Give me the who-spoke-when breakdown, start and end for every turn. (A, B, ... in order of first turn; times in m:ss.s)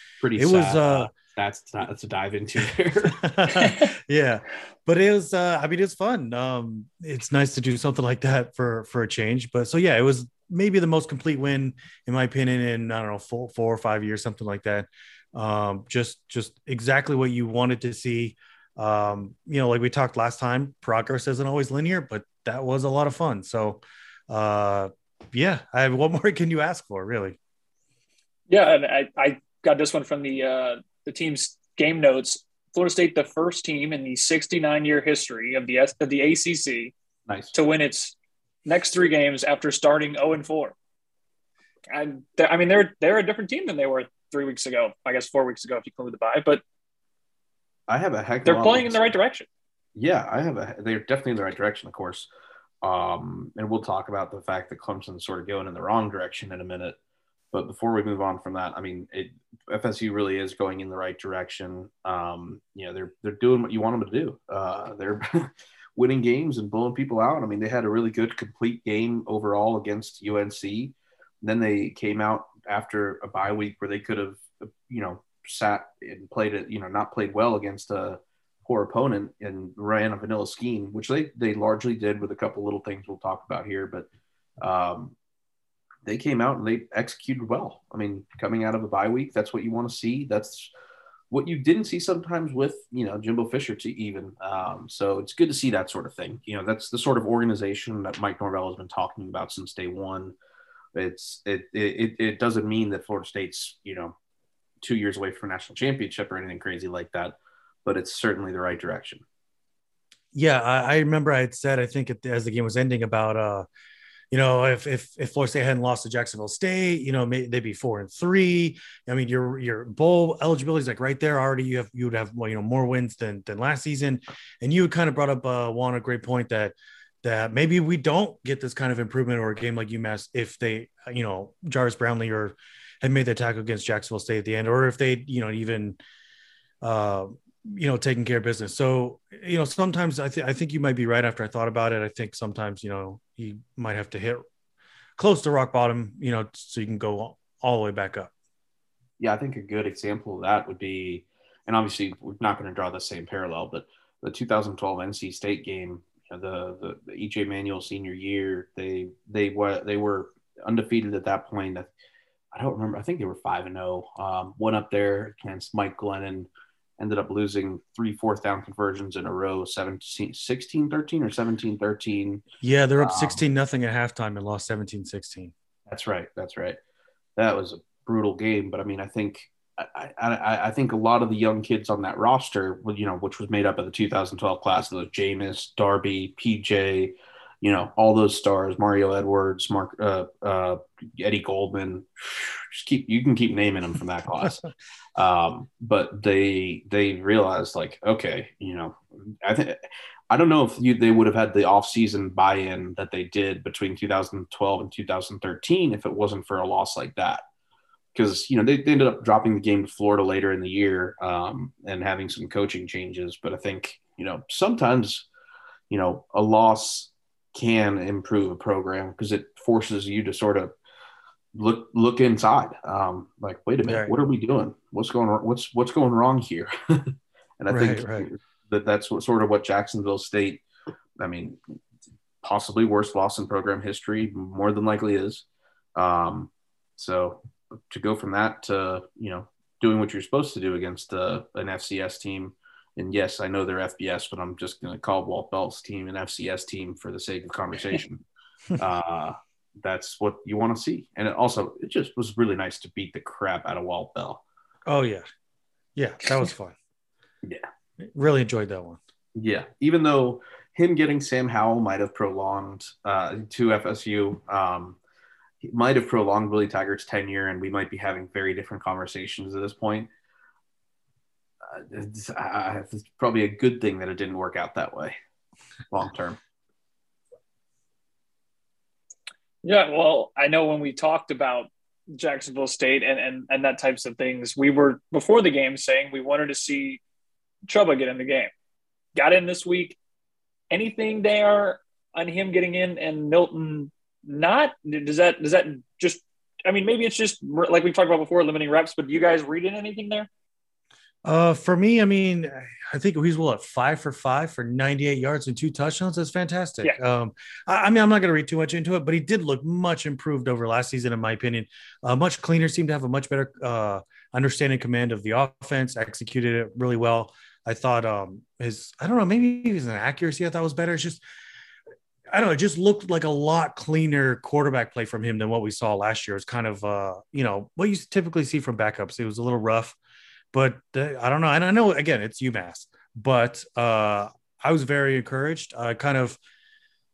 0:00.2-0:03.2 A
0:00.4-0:01.1 B
0:03.1-0:27.4 B
0:28.5-0:36.9 C
0:37.3-0:37.5 A
0:37.5-0:38.1 C
0:38.7-0:40.8 C
0:41.9-0:46.6 C
0:47.9-0:49.1 A
0:48.4-0:49.5 C
0:50.0-0:52.3 A
0:52.8-0:57.0 A
0:57.5-1:24.1 A
1:24.6-1:25.2 A
1:26.0-1:30.7 A
1:31.3-1:40.4 A
1:41.0-1:44.2 A
1:44.8-1:49.2 A
1:50.3-1:53.7 B
1:54.3-2:16.0 B
2:16.8-2:24.4 B
2:25.2-2:28.3 B
2:29.2-2:41.9 A
2:42.5-2:52.4 A
2:52.6-2:55.5 B
2:53.0-2:53.4 A
2:55.9-2:56.8 A
2:57.4-3:14.6 A
3:15.2-3:27.4 A
3:28.2-3:35.3 A
3:35.9-3:40.7 A
3:41.6-3:50.6 A
3:43.8-3:44.1 B
3:47.7-3:48.3 B
3:51.2-3:51.6 A
3:52.4-4:08.2 A
4:08.8-4:14.4 A
4:14.9-4:15.2 B
4:16.0-4:16.8 B
4:18.0-4:19.0 B
4:19.4-4:25.0 A
4:25.6-4:30.1 A
4:31.7-4:35.2 A
4:35.9-4:36.4 A
4:39.6-4:47.0 C
4:47.7-4:48.5 C
4:49.2-4:50.0 C
4:50.7-5:00.3 C
5:01.2-5:21.2 B
5:22.3-5:30.0 B
5:30.5-5:36.4 B